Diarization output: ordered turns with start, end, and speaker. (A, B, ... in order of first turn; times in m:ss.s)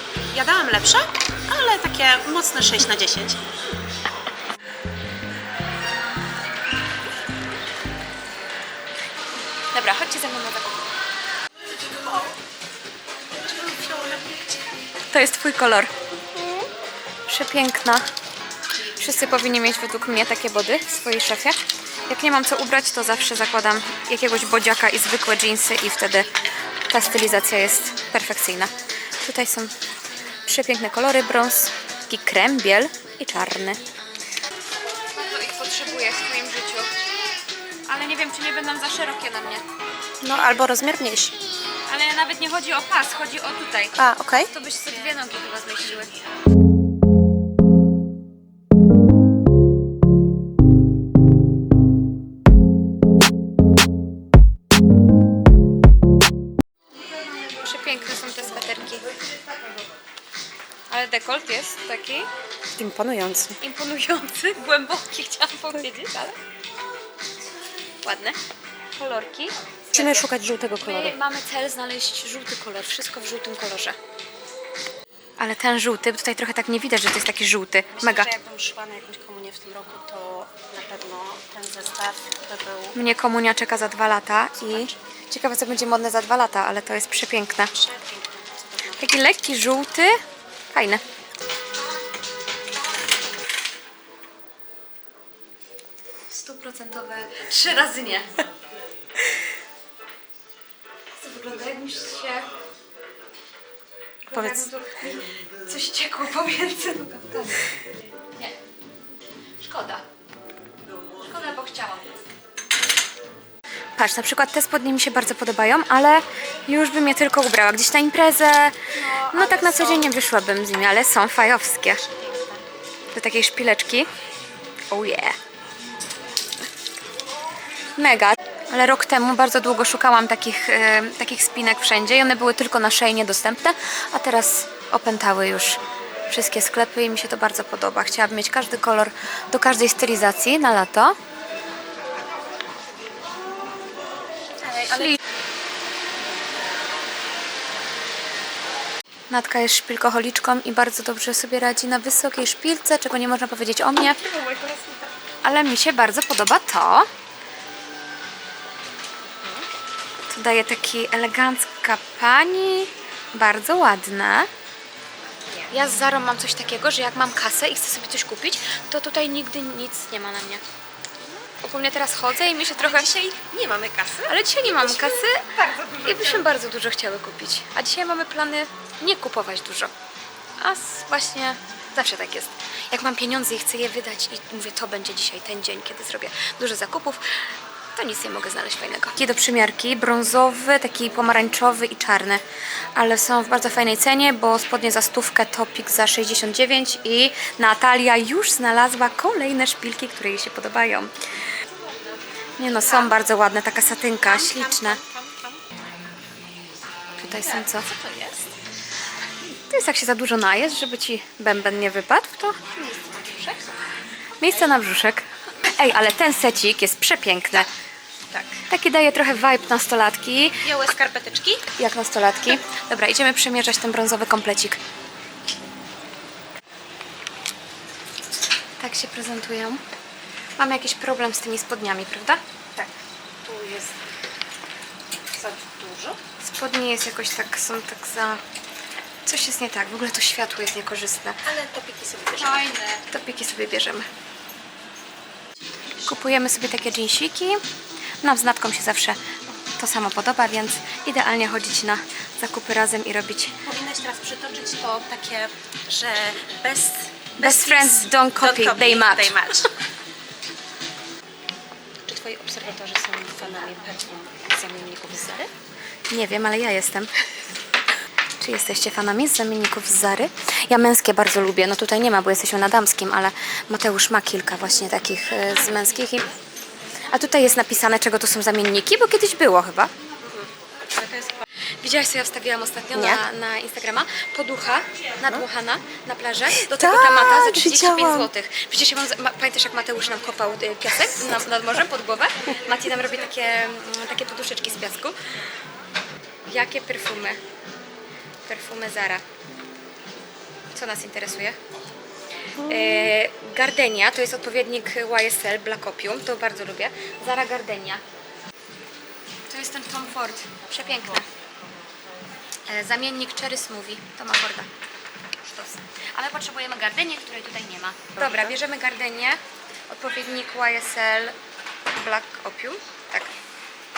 0:00.3-0:03.4 A
0:09.7-0:10.8 B
0:11.9-0:12.3 A
0:13.4-0:14.5 A
0:15.1-0:15.9 B
0:17.3-0:18.0 B
0:19.0-0:26.3 B
0:26.9-0:29.7 B
0:30.4-0:33.8 B
0:35.1-0:36.9 B
0:37.9-0:39.6 B
0:40.2-0:41.4 A
0:41.9-0:46.1 B
0:44.0-0:44.5 A
0:57.4-0:59.1 B
1:00.9-1:02.3 B
1:02.8-1:03.6 A
1:03.6-1:06.4 B
1:08.0-1:08.4 B
1:08.9-1:10.3 B
1:09.9-1:11.1 A
1:10.8-1:14.0 B
1:15.4-1:18.3 B
1:18.0-1:23.0 A
1:22.9-1:27.7 B
1:27.7-1:29.0 A
1:29.0-1:30.2 B
1:30.7-1:31.0 B
1:36.3-1:38.3 B
1:41.2-1:42.5 B
1:44.2-1:47.7 B
1:44.3-1:44.7 A
1:49.6-1:50.0 B
1:51.2-1:52.1 B
1:54.0-2:02.0 B
1:59.0-2:00.1 A
2:02.1-2:02.6 A
2:03.1-2:04.1 B
2:04.9-2:05.4 B
2:08.0-2:15.8 B
2:16.3-2:21.2 B
2:24.6-2:25.2 A
2:24.9-2:25.2 B
2:29.3-2:34.2 B
2:34.0-2:35.1 A
2:35.4-2:37.1 B
2:40.3-2:44.5 B
2:45.7-2:50.6 B
2:51.2-2:51.5 A
2:51.6-2:53.1 B
2:52.8-2:56.5 A
2:54.3-2:55.4 B
2:56.0-2:59.9 B
3:00.6-3:07.4 B
3:07.9-3:12.4 B
3:12.9-3:21.1 B
3:22.6-3:25.0 B
3:22.7-3:23.2 A
3:24.2-3:25.6 A
3:27.2-3:27.9 B
3:27.3-3:28.5 A
3:29.7-3:32.6 B
3:32.7-3:33.7 A
3:34.4-3:37.7 B
3:38.3-3:38.6 A
3:38.7-3:40.6 B
3:40.6-3:41.6 A
3:41.7-3:44.8 B
3:48.8-3:49.8 B
3:50.6-3:52.4 B
3:53.4-3:54.0 A
3:55.3-3:56.2 A
3:56.4-3:58.4 B
3:59.2-4:01.4 B
4:01.4-4:02.8 A
4:02.4-4:04.1 B
4:06.0-4:07.6 B
4:08.2-4:09.2 B
4:09.8-4:13.5 B
4:13.6-4:19.7 A
4:17.4-4:19.4 B
4:22.0-4:25.5 A
4:26.1-4:27.1 B
4:28.4-4:36.3 B
4:37.1-4:39.9 B
4:40.2-4:41.4 A
4:41.8-4:55.1 B
4:42.9-4:43.2 A
4:46.6-4:48.3 A
4:56.4-4:57.4 B
4:58.4-4:59.2 B
5:00.7-5:01.6 B
5:02.6-5:08.0 B
5:02.6-5:03.1 A
5:09.5-5:11.2 B
5:12.7-5:14.7 B
5:15.4-5:21.3 B
5:21.9-5:23.4 B